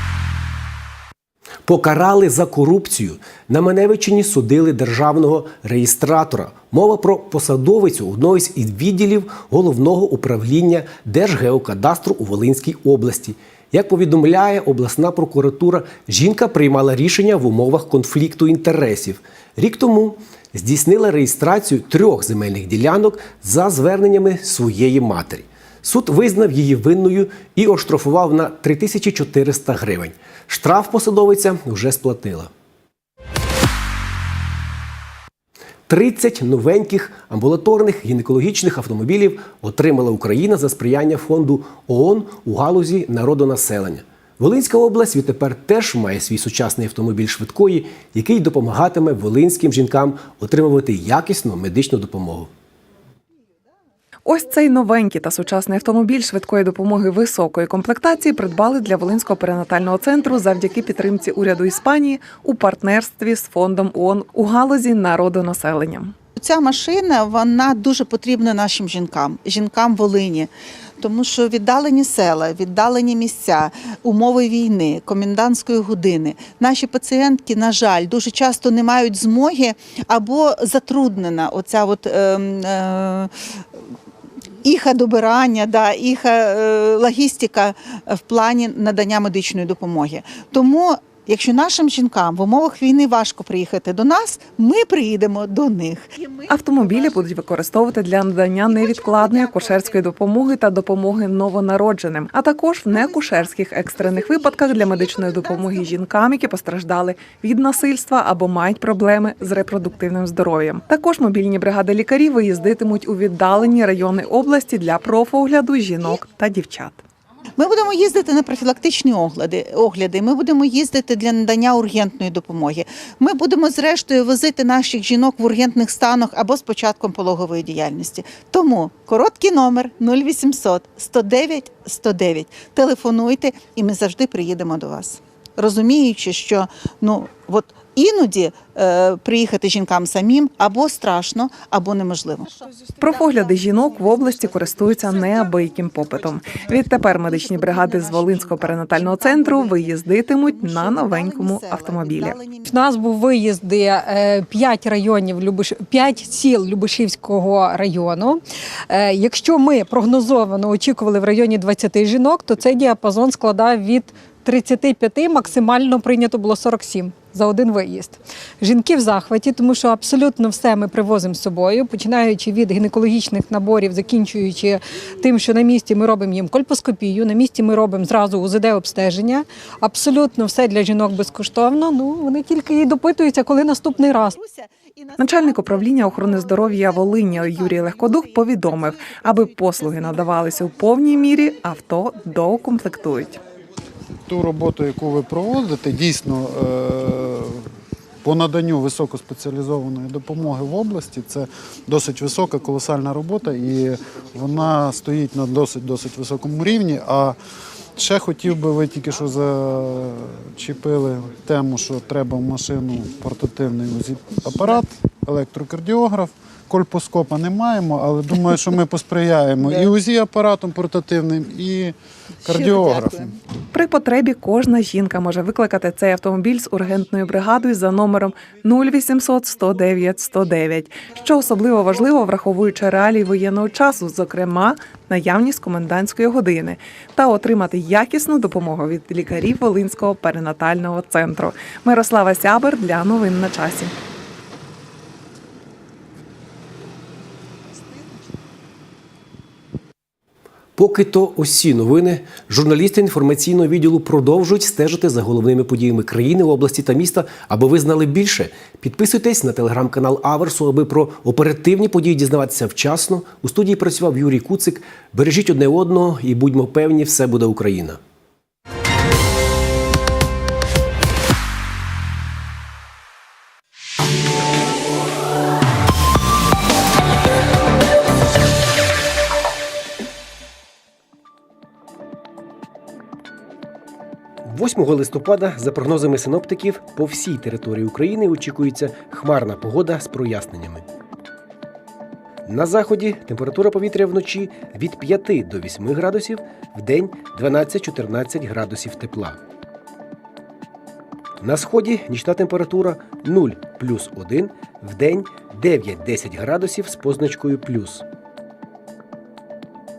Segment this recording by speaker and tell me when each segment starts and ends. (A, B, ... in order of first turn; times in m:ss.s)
0:01.6-0:32.5 A
0:35.9-0:52.5 A
0:54.3-1:06.1 B
1:06.4-1:23.3 C
1:24.6-1:37.1 C
1:36.5-1:57.0 B
1:38.6-1:40.0 C
1:42.9-1:46.0 C
1:57.6-2:32.6 C
2:23.0-2:32.4 B
2:32.6-3:04.4 D
3:04.3-3:10.3 C
3:05.2-3:13.4 B
3:14.3-3:17.7 E
3:18.2-3:27.4 E
3:28.0-3:43.3 E
3:42.5-3:43.2 C
3:43.7-4:03.9 B
4:10.8-4:28.0 A
4:44.4-4:50.8 A
4:52.4-4:59.4 A
5:01.4-5:08.0 A